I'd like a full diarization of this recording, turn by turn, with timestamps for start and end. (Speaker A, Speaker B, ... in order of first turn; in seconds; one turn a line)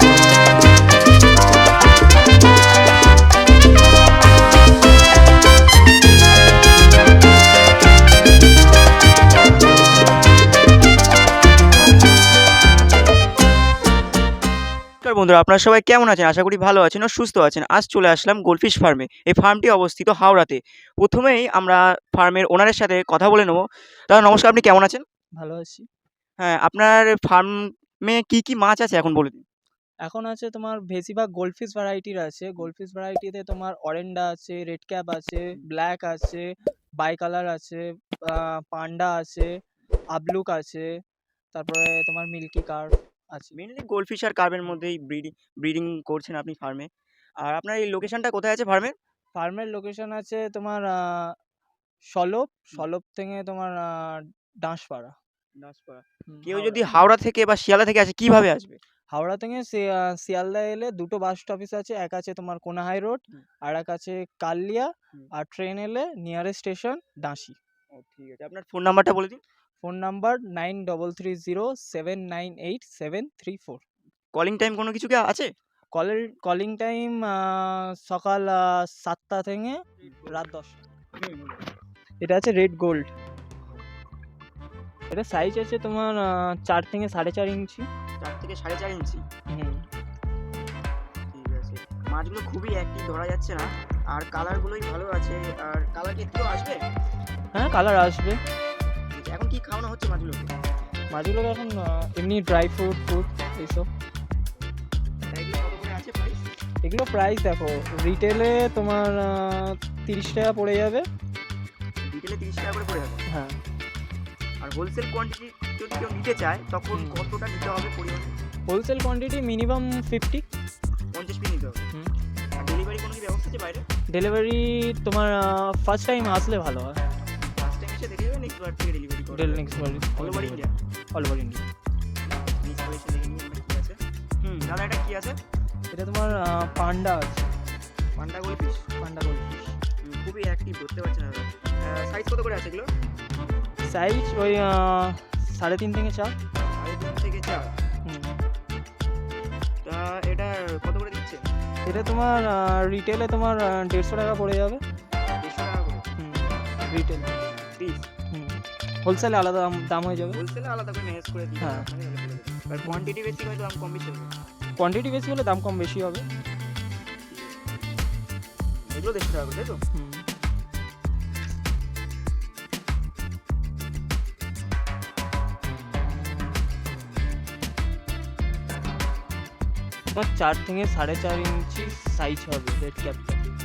Speaker A: 15.0-25.0
Speaker B: 25.4-25.9
Speaker A: 26.4-29.4
Speaker B: 30.0-36.4
Speaker B: 37.0-39.5
Speaker B: 40.1-40.9
Speaker B: 41.5-43.6
Speaker A: 43.5-46.9
Speaker A: 47.4-48.9
Speaker B: 49.3-51.4
Speaker B: 52.1-55.1
Speaker A: 55.6-58.8
Speaker B: 56.3-57.0
Speaker B: 59.1-67.5
Speaker A: 67.9-69.4
Speaker B: 69.8-73.8
Speaker A: 74.3-75.5
Speaker B: 75.9-80.8
Speaker A: 80.0-80.4
Speaker A: 81.2-81.6
Speaker B: 82.2-83.1
Speaker B: 85.1-87.9
Speaker A: 88.2-89.2
Speaker B: 89.5-89.8
Speaker A: 91.3-96.8
Speaker B: 97.5-98.4
Speaker A: 99.1-100.5
Speaker B: 101.1-103.9
Speaker A: 105.3-106.4
Speaker B: 106.8-111.0
Speaker A: 112.0-113.2
Speaker B: 113.3-113.6
Speaker A: 114.6-118.3
Speaker B: 116.9-117.3
Speaker B: 118.7-120.5
Speaker A: 121.1-121.9
Speaker A: 122.6-123.8
Speaker B: 124.1-127.0
Speaker A: 127.4-130.7
Speaker B: 129.3-131.6
Speaker A: 132.3-135.4
Speaker B: 135.9-137.5
Speaker A: 138.2-138.8
Speaker B: 139.0-139.8
Speaker A: 140.0-142.9
Speaker B: 143.8-146.3
Speaker A: 146.7-147.7
Speaker B: 148.0-148.3
Speaker A: 149.8-151.5
Speaker B: 151.8-154.8
Speaker A: 155.4-156.0
Speaker B: 156.2-157.3
Speaker A: 157.7-158.1
Speaker B: 158.3-160.4
Speaker A: 160.3-164.3
Speaker B: 161.6-161.9
Speaker B: 162.8-163.1
Speaker B: 164.8-166.3
Speaker A: 167.3-167.7
Speaker A: 168.7-169.8
Speaker B: 169.9-170.2
Speaker B: 180.1-183.4